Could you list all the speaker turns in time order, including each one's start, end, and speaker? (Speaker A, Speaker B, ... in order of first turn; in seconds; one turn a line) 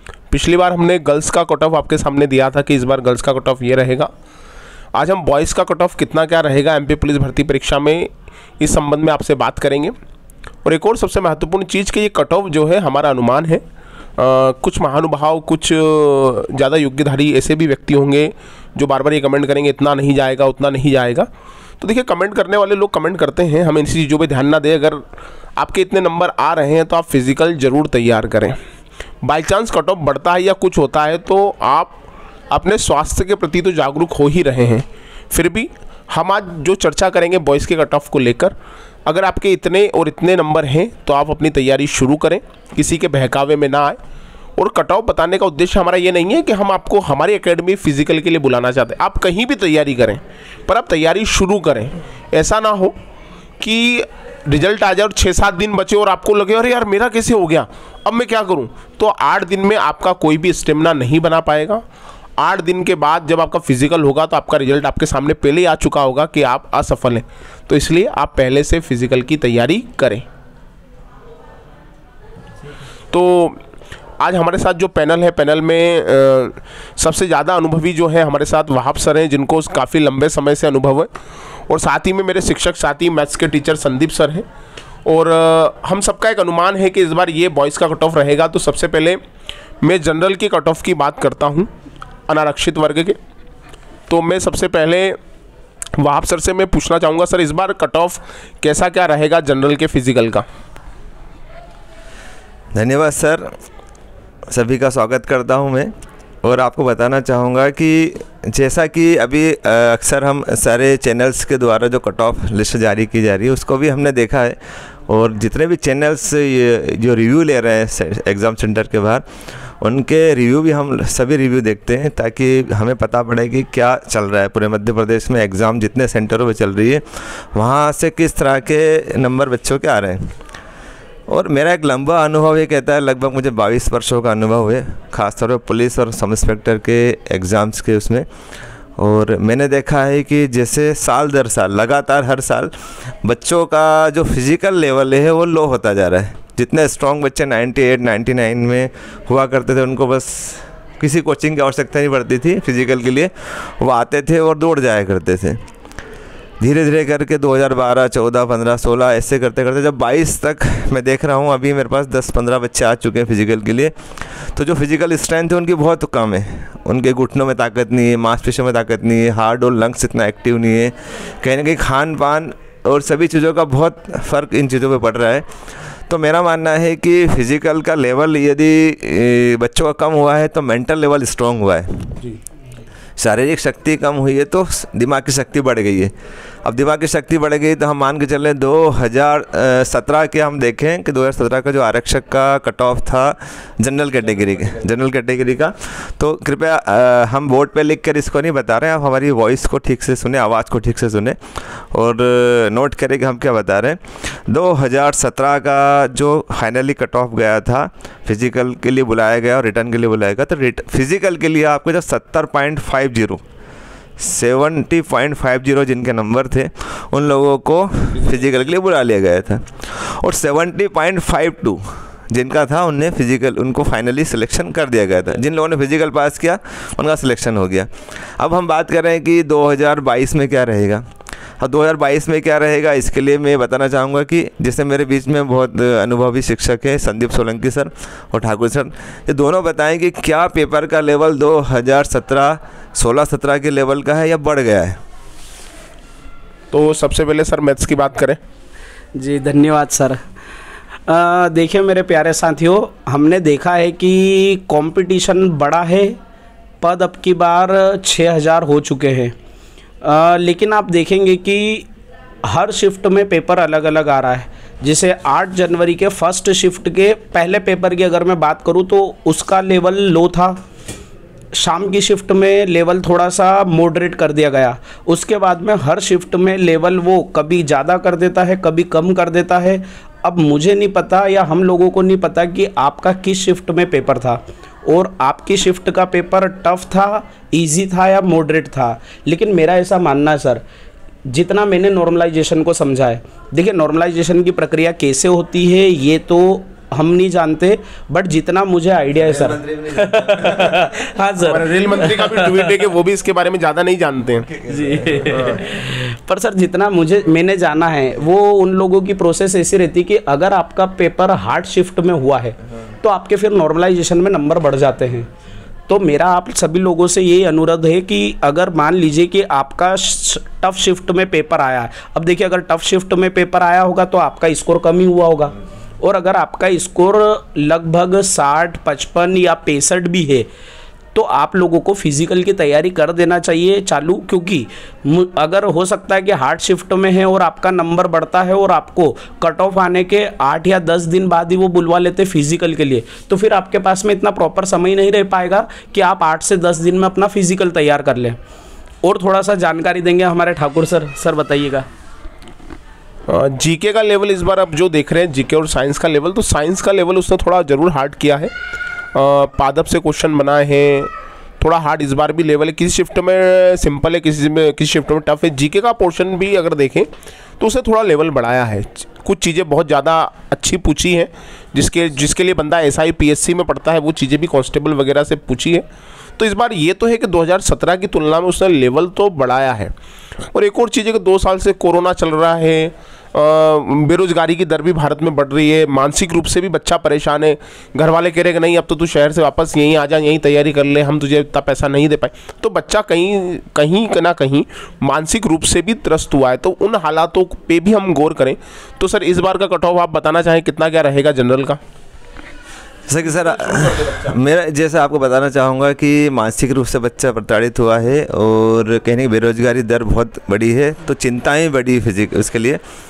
Speaker A: 0.3-4.1
Speaker A: 4.9-9.9
Speaker A: 10.6-13.6
Speaker A: 14.2-21.3
Speaker A: 21.8-25.0
Speaker A: 25.6-28.6
Speaker A: 29.2-32.0
Speaker A: 32.5-44.0
Speaker A: 44.5-52.9
Speaker A: 53.6-61.8
Speaker A: 62.4-70.2
Speaker A: 73.1-73.6
Speaker A: 74.2-81.1
Speaker A: 81.7-84.4
Speaker A: 85.0-89.2
Speaker A: 89.8-91.7
Speaker A: 92.3-93.2
Speaker A: 94.1-95.2
Speaker A: 96.0-100.4
Speaker B: 102.7-103.5
Speaker B: 104.5-105.9
Speaker B: 106.4-119.2
Speaker B: 119.8-130.2
Speaker B: 131.3-138.2
Speaker B: 139.0-142.7
Speaker B: 143.2-155.6
Speaker B: 156.6-163.9
Speaker B: 164.5-175.4
Speaker B: 176.1-182.2
Speaker B: 183.2-186.1
Speaker B: 186.6-213.4
Speaker A: 194.4-194.8
Speaker B: 214.2-231.0
Speaker B: 231.6-245.0
Speaker A: 246.7-248.4
Speaker C: 249.1-250.2
Speaker C: 251.1-256.1
Speaker C: 256.8-259.3
Speaker C: 260.0-261.9
Speaker C: 262.5-270.6
Speaker C: 271.5-290.6
Speaker C: 291.3-302.7
Speaker B: 299.1-300.8
Speaker A: 301.4-304.5
Speaker B: 304.5-305.5
Speaker C: 304.7-315.3
Speaker A: 305.3-305.6
Speaker C: 315.9-330.5
Speaker C: 331.1-348.4
Speaker C: 349.0-351.9
Speaker A: 353.3-358.5
Speaker A: 359.1-367.1
Speaker A: 367.6-375.8
Speaker A: 376.4-379.9
Speaker A: 380.5-401.8
Speaker B: 403.1-412.8
Speaker A: 403.2-404.4